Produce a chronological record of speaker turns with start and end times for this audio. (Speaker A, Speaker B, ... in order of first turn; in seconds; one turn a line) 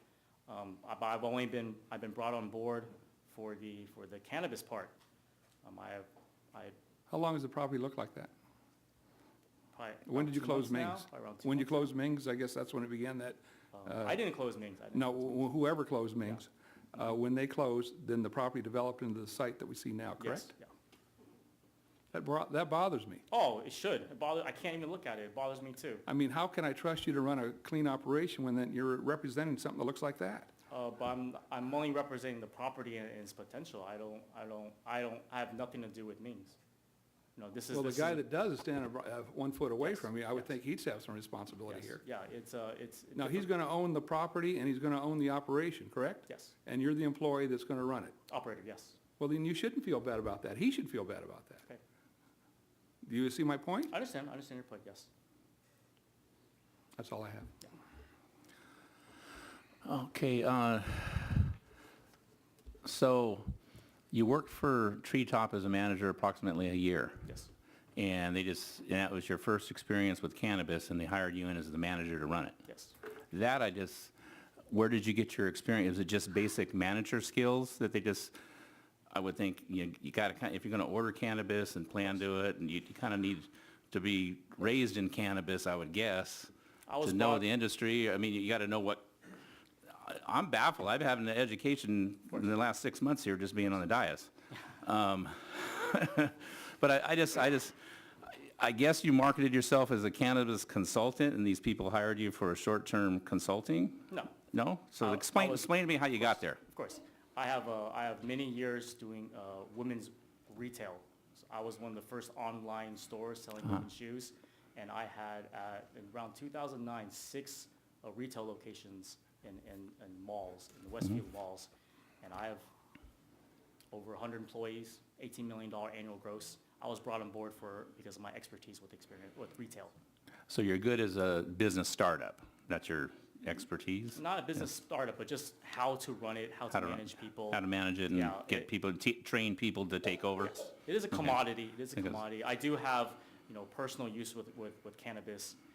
Speaker A: 0.5-5.0
Speaker A: 5.6-6.7
Speaker B: 7.1-8.3
Speaker A: 9.7-11.9
Speaker B: 10.1-14.2
Speaker A: 13.7-15.4
Speaker B: 14.9-20.5
Speaker A: 20.2-20.7
Speaker B: 22.1-23.2
Speaker A: 23.3-26.1
Speaker B: 26.1-30.5
Speaker A: 30.7-36.6
Speaker A: 37.4-38.2
Speaker B: 37.7-42.0
Speaker A: 39.8-40.5
Speaker A: 41.7-43.5
Speaker B: 43.1-48.1
Speaker A: 46.3-46.5
Speaker A: 48.3-49.0
Speaker B: 49.2-51.6
Speaker B: 53.0-53.9
Speaker A: 53.9-55.1
Speaker B: 57.0-57.5
Speaker C: 59.8-61.5
Speaker C: 62.8-63.5
Speaker C: 64.1-67.3
Speaker C: 68.0-72.6
Speaker A: 72.7-72.9
Speaker C: 73.3-74.1
Speaker C: 74.7-78.3
Speaker C: 79.1-86.5
Speaker A: 86.9-87.5
Speaker C: 87.0-89.1
Speaker C: 89.9-94.3
Speaker C: 94.8-97.7
Speaker C: 98.3-106.6
Speaker A: 104.1-104.4
Speaker A: 105.0-121.7
Speaker A: 122.2-122.7
Speaker A: 123.9-129.9
Speaker C: 130.5-134.2
Speaker A: 134.1-138.7
Speaker C: 136.7-142.2
Speaker A: 140.8-145.6